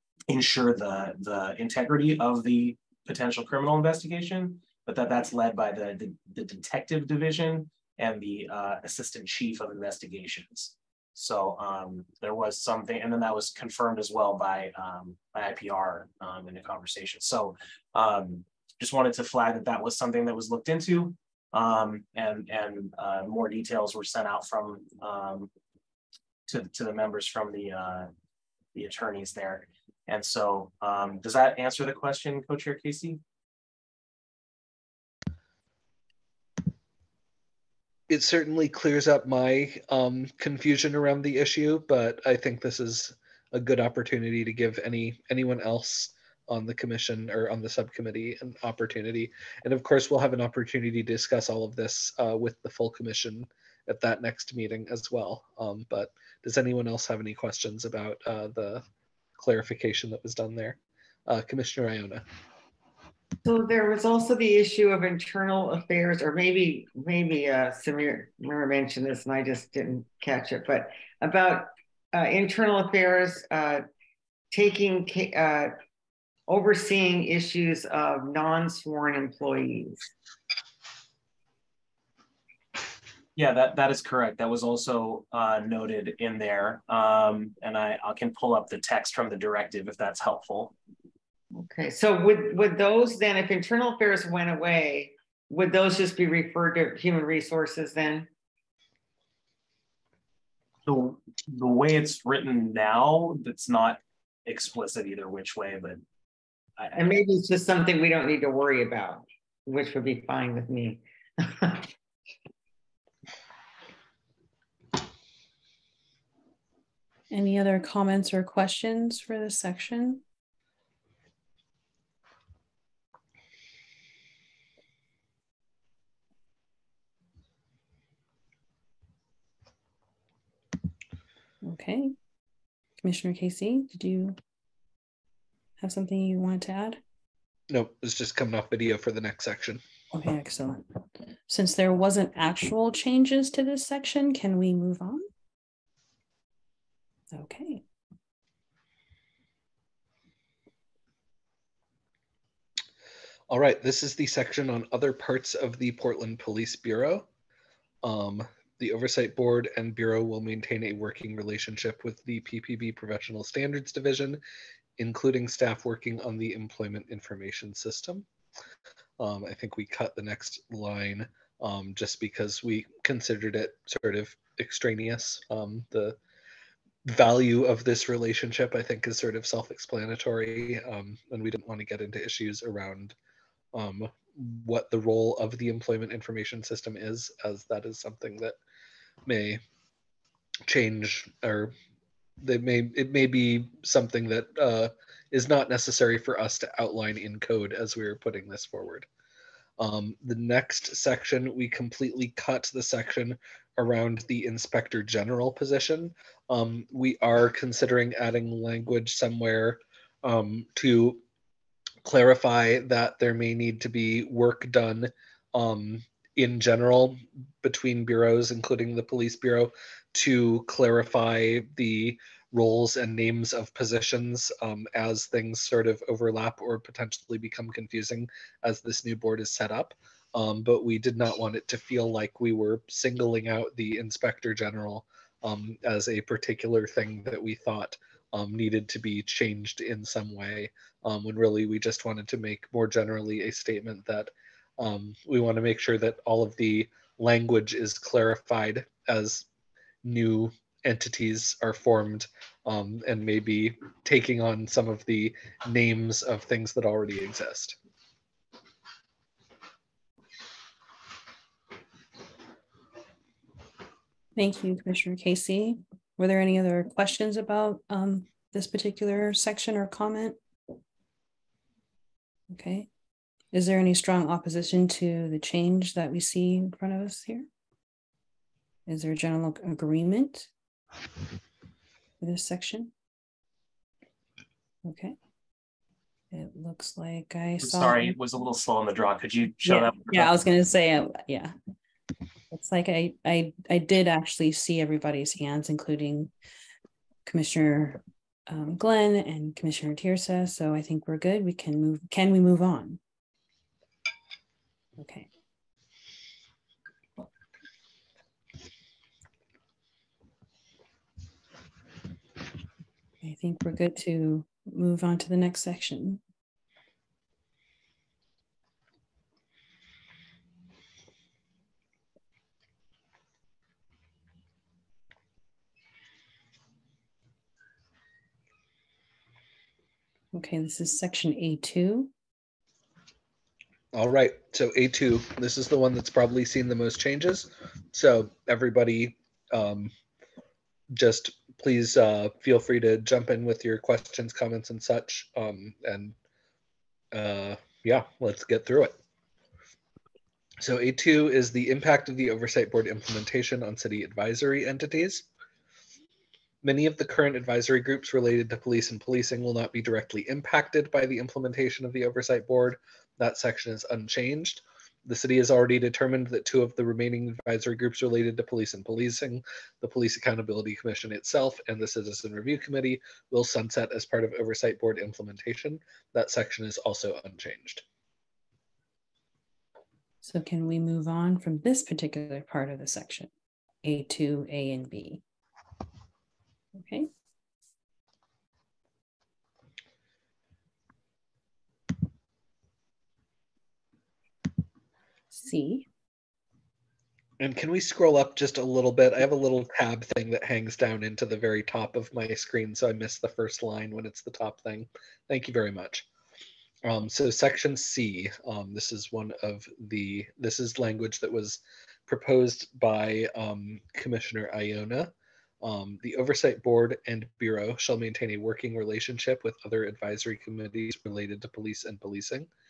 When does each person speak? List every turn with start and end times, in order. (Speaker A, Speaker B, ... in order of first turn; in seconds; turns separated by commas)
Speaker A: 0.3-25.5, Speaker A: 26.5-28.1, Speaker A: 28.7-33.2, Speaker B: 38.1-58.8, Speaker B: 59.4-62.2, Speaker C: 63.4-73.8, Speaker C: 74.5-75.7, Speaker C: 76.5-80.0, Speaker A: 83.3-90.7, Speaker C: 91.5-98.3, Speaker A: 100.8-106.0, Speaker C: 106.9-111.9, Speaker D: 117.3-120.2, Speaker D: 131.6-132.1, Speaker D: 133.0-134.4, Speaker D: 135.8-137.0, Speaker B: 137.7-139.8, Speaker D: 140.1-145.3, Speaker D: 147.3-147.8, Speaker B: 153.5-157.3, Speaker B: 158.0-164.4, Speaker B: 165.0-168.3, Speaker B: 169.2-176.2, Speaker B: 177.0-183.1, Speaker B: 183.7-188.6, Speaker B: 189.2-189.6, Speaker B: 190.7-191.7, Speaker B: 192.4-199.1, Speaker B: 199.8-211.2, Speaker B: 212.0-249.4, Speaker B: 250.0-257.8, Speaker D: 264.4-270.4, Speaker D: 272.5-272.9, Speaker D: 273.5-277.5, Speaker D: 278.9-280.5, Speaker D: 282.2-282.9, Speaker D: 284.8-285.1, Speaker D: 286.3-288.1, Speaker A: 287.6-290.3, Speaker D: 289.6-291.5, Speaker D: 292.5-296.3, Speaker D: 297.2-303.0, Speaker D: 305.0-305.3, Speaker D: 313.2-316.2, Speaker D: 330.3-332.1, Speaker B: 333.9-339.9, Speaker B: 340.9-346.1, Speaker B: 347.1-348.9, Speaker B: 350.6-355.3, Speaker B: 356.6-377.8, Speaker D: 380.2-383.3, Speaker D: 383.8-385.2, Speaker D: 386.7-387.1, Speaker D: 395.3-395.9, Speaker B: 397.4-406.1, Speaker B: 406.8-422.5